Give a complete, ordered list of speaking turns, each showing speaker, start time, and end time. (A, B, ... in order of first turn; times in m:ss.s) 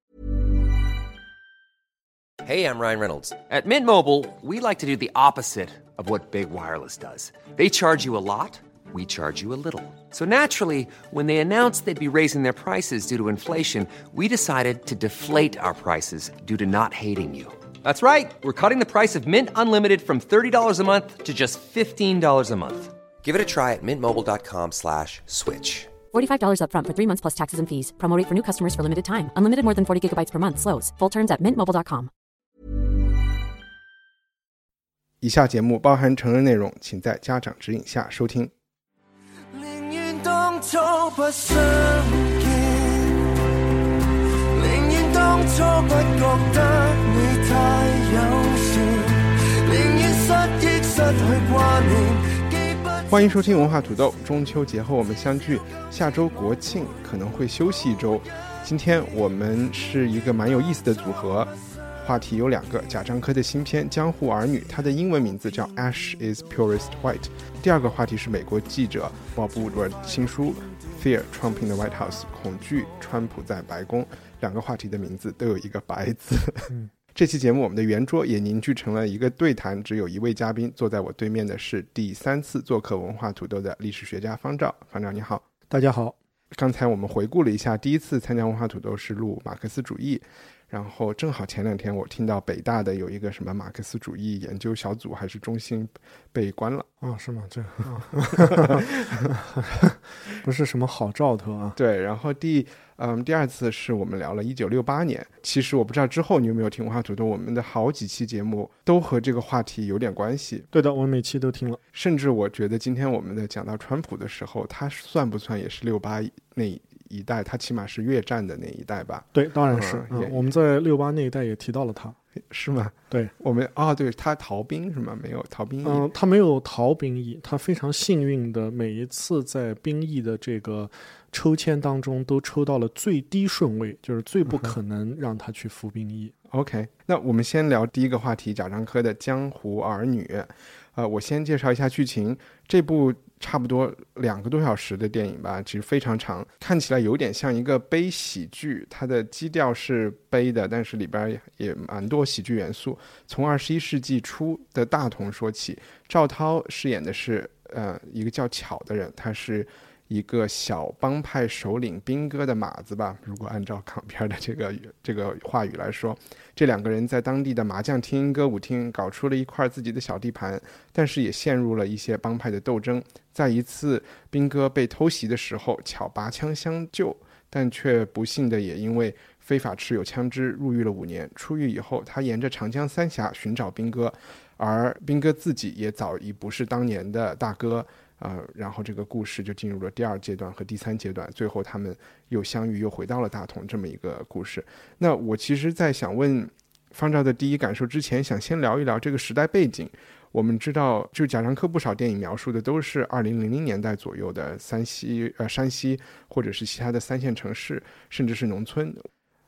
0:02.4-0:25.9 A
0:26.1-0:32.1 B
0:35.2-0:38.5 C
0:39.5-0:43.3 D
0:44.6-0:53.2 D
0:53.1-1:25.4 C
1:25.7-1:26.2 E
1:26.5-1:36.9 C
1:37.0-1:39.4 E
1:37.8-1:39.3 C
1:40.3-1:41.8 E
1:41.8-1:50.7 C
1:50.7-1:51.8 E
1:51.9-2:00.4 C
1:59.3-2:02.2 E
2:02.5-2:06.1 C
2:05.8-2:16.3 E
2:16.5-3:29.1 C